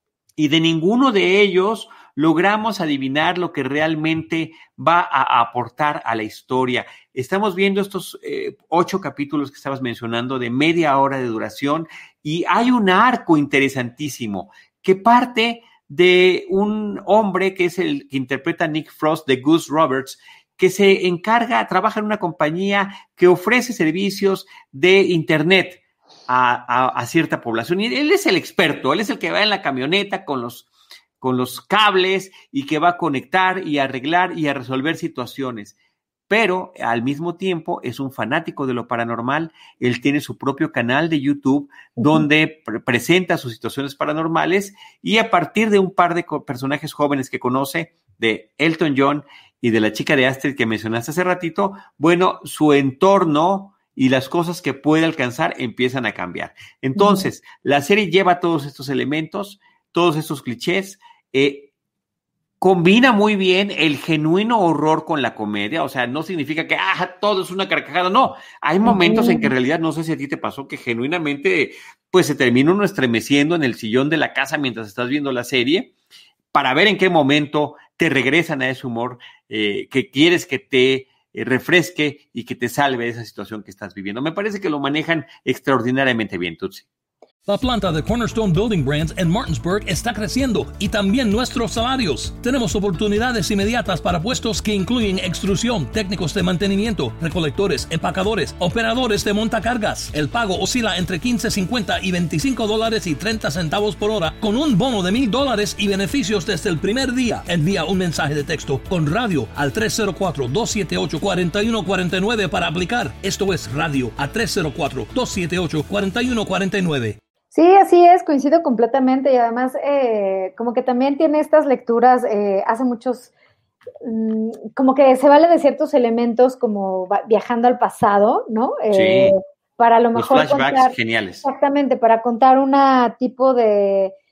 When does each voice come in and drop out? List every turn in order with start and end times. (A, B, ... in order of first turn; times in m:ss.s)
0:00.4-0:30.7 A
0:31.2-0:35.7 A
0:36.3-1:01.7 A
0:42.0-0:42.2 B
0:57.0-0:57.3 B
1:02.6-1:15.9 A
1:08.8-1:09.5 B
1:16.5-1:26.8 A
1:27.5-1:57.2 C
1:57.5-2:03.3 B
2:04.0-2:14.1 B
2:08.9-2:09.4 A
2:10.1-2:11.4 A